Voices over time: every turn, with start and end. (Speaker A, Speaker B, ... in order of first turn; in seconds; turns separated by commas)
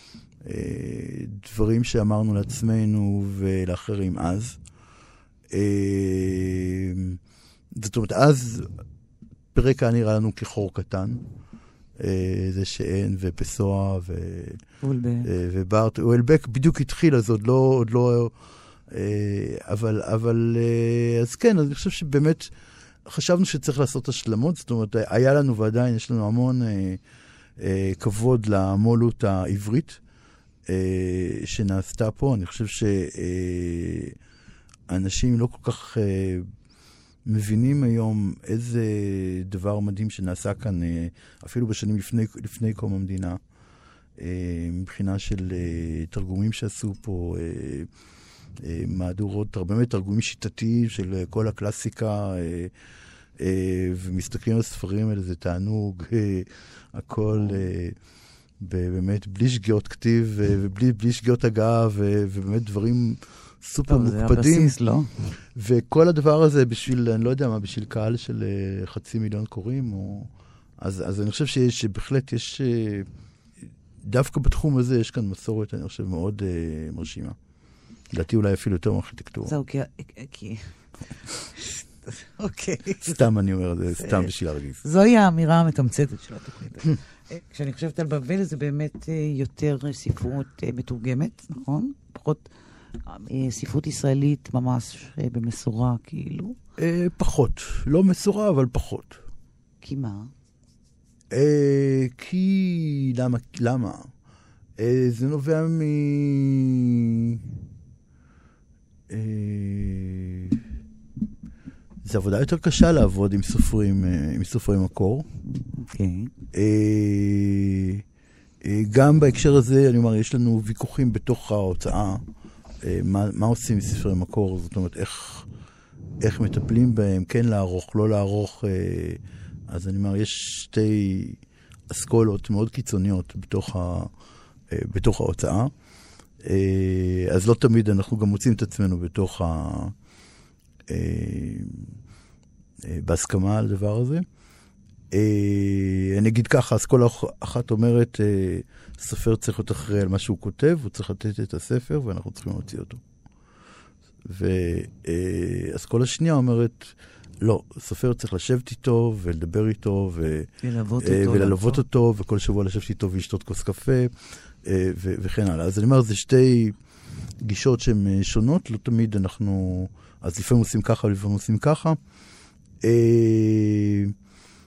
Speaker A: 0.4-4.6, Speaker A: 5.5-7.2, Speaker A: 7.7-8.7, Speaker A: 9.5-11.2, Speaker A: 12.0-14.6, Speaker B: 14.8-15.3, Speaker A: 15.2-18.3, Speaker A: 18.9-22.5, Speaker A: 23.1-27.0, Speaker A: 27.6-30.0, Speaker A: 30.7-34.2, Speaker A: 34.9-36.5, Speaker A: 37.2-43.4, Speaker A: 44.2-47.9, Speaker A: 48.6-52.7, Speaker A: 53.4-58.0, Speaker A: 58.6-64.8, Speaker B: 63.9-65.1, Speaker A: 65.5-73.1, Speaker A: 74.0-77.4, Speaker A: 78.1-79.5, Speaker B: 79.5-80.7, Speaker B: 81.3-83.2, Speaker A: 83.0-84.8, Speaker B: 83.9-84.3, Speaker B: 84.8-92.5, Speaker B: 93.1-96.6, Speaker A: 96.8-99.2, Speaker B: 99.8-100.3, Speaker A: 101.3-104.1, Speaker A: 104.8-107.4, Speaker A: 109.1-110.6, Speaker A: 112.0-115.3, Speaker B: 115.8-116.3, Speaker A: 116.5-118.0, Speaker A: 118.6-122.2, Speaker A: 122.8-125.5, Speaker A: 126.2-134.1, Speaker A: 134.7-135.7, Speaker A: 136.4-139.9, Speaker A: 140.9-141.9, Speaker A: 142.8-144.2, Speaker A: 145.1-153.0, Speaker A: 154.2-160.5, Speaker B: 160.6-161.8, Speaker A: 161.0-166.8, Speaker A: 167.4-172.0, Speaker A: 172.8-174.2